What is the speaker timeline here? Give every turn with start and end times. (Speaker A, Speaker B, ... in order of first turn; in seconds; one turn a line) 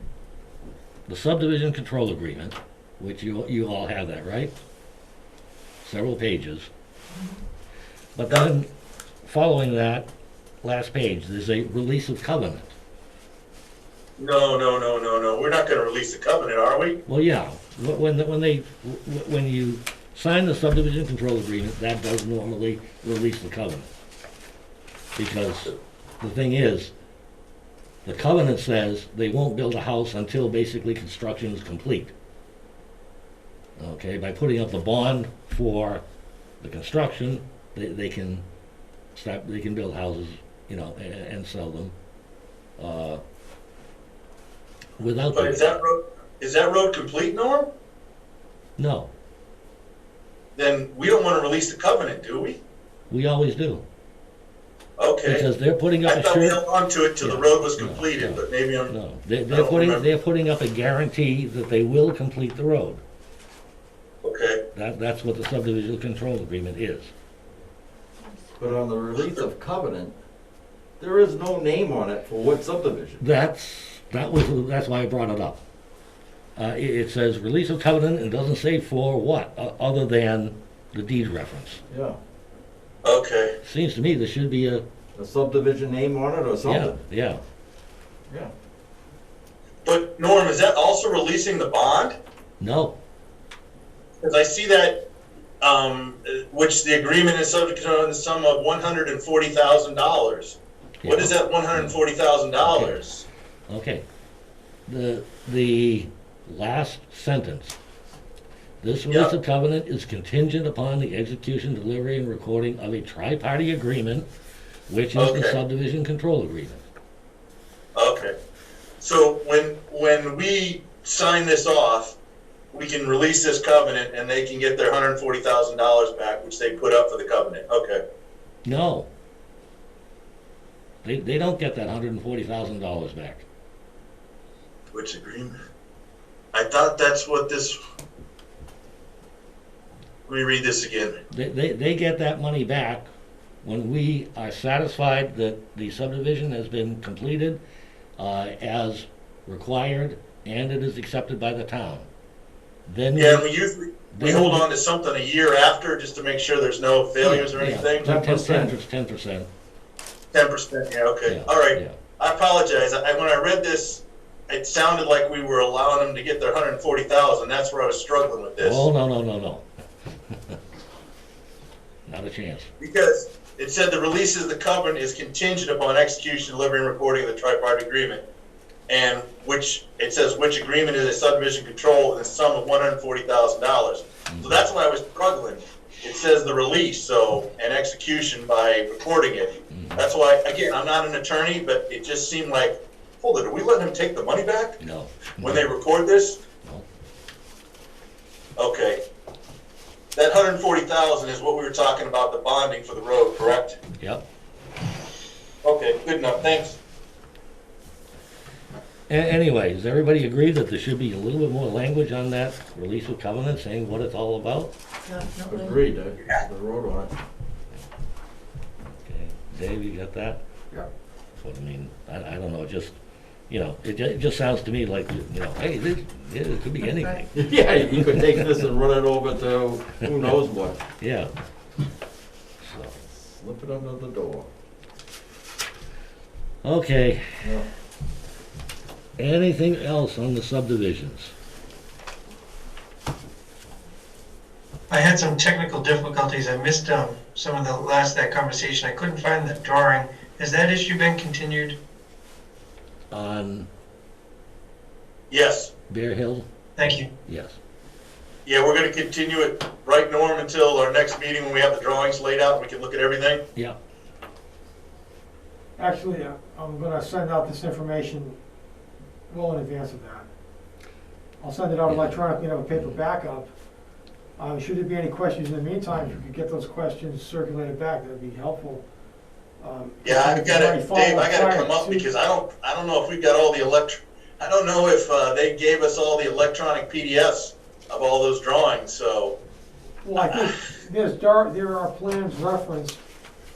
Speaker A: 1.1-4.5
Speaker A: 5.8-6.7
Speaker A: 8.2-8.7
Speaker A: 9.2-10.1
Speaker A: 10.6-12.7
Speaker B: 14.2-17.0
Speaker A: 17.1-23.9
Speaker A: 25.1-26.9
Speaker A: 28.0-32.1
Speaker A: 33.8-36.0
Speaker A: 36.6-38.4
Speaker A: 39.1-41.9
Speaker A: 42.8-43.2
Speaker A: 45.0-45.8
Speaker B: 45.3-47.7
Speaker A: 48.8-49.1
Speaker B: 50.5-52.6
Speaker A: 53.1-53.8
Speaker B: 55.0-55.5
Speaker A: 55.2-56.6
Speaker B: 56.0-58.9
Speaker A: 57.2-63.0
Speaker B: 59.5-60.1
Speaker B: 64.2-64.6
Speaker A: 64.7-67.1
Speaker C: 68.6-70.1
Speaker B: 69.2-69.4
Speaker C: 71.0-73.2
Speaker A: 73.2-75.6
Speaker A: 76.6-81.8
Speaker C: 81.9-82.2
Speaker B: 83.0-83.5
Speaker A: 83.6-84.8
Speaker C: 85.2-87.0
Speaker A: 86.6-87.4
Speaker B: 89.8-92.2
Speaker A: 92.6-93.0
Speaker B: 94.2-95.0
Speaker B: 95.6-103.2
Speaker A: 101.0-101.9
Speaker A: 102.6-103.0
Speaker A: 103.7-104.0
Speaker A: 104.9-107.8
Speaker A: 108.8-114.3
Speaker B: 109.1-109.3
Speaker A: 114.9-116.8
Speaker B: 115.1-115.6
Speaker B: 117.9-118.3
Speaker B: 119.0-122.1
Speaker B: 122.7-128.0
Speaker A: 128.6-129.1
Speaker A: 131.0-133.4
Speaker B: 134.9-135.6
Speaker B: 136.5-137.8
Speaker B: 140.3-141.2
Speaker A: 141.3-143.1
Speaker A: 143.6-147.6
Speaker A: 148.2-152.1
Speaker A: 152.9-153.4
Speaker B: 153.1-158.1
Speaker A: 154.1-154.6
Speaker A: 157.2-159.5
Speaker C: 158.0-158.8
Speaker B: 160.3-168.8
Speaker A: 161.2-161.9
Speaker A: 168.6-169.7
Speaker A: 170.3-170.6
Speaker A: 172.1-172.7
Speaker B: 172.8-178.2
Speaker B: 178.9-194.8
Speaker A: 184.3-184.6
Speaker A: 189.7-190.0
Speaker A: 194.8-195.7
Speaker B: 195.4-196.4
Speaker B: 198.6-199.0
Speaker B: 200.2-203.8
Speaker A: 204.0-204.2
Speaker B: 205.6-206.8
Speaker A: 209.1-214.7
Speaker D: 215.0-215.8
Speaker C: 215.4-217.1
Speaker A: 219.0-220.4
Speaker A: 221.4-222.9
Speaker A: 223.5-228.1
Speaker C: 227.3-230.8
Speaker A: 230.0-230.4
Speaker A: 231.0-231.3
Speaker A: 232.6-232.9
Speaker C: 233.0-234.5
Speaker A: 236.6-237.4
Speaker C: 237.4-237.7
Speaker A: 239.2-241.3
Speaker D: 244.9-251.8
Speaker A: 253.1-253.7
Speaker B: 255.3-255.7
Speaker A: 255.9-256.5
Speaker D: 256.8-257.1
Speaker A: 257.2-257.6
Speaker B: 258.4-263.4
Speaker E: 265.8-268.4
Speaker E: 269.3-270.3
Speaker E: 271.4-273.5
Speaker A: 271.9-272.2
Speaker A: 272.7-273.0
Speaker E: 274.4-278.8
Speaker E: 279.6-282.0
Speaker B: 280.0-289.3
Speaker E: 290.0-293.0
Speaker B: 290.2-290.6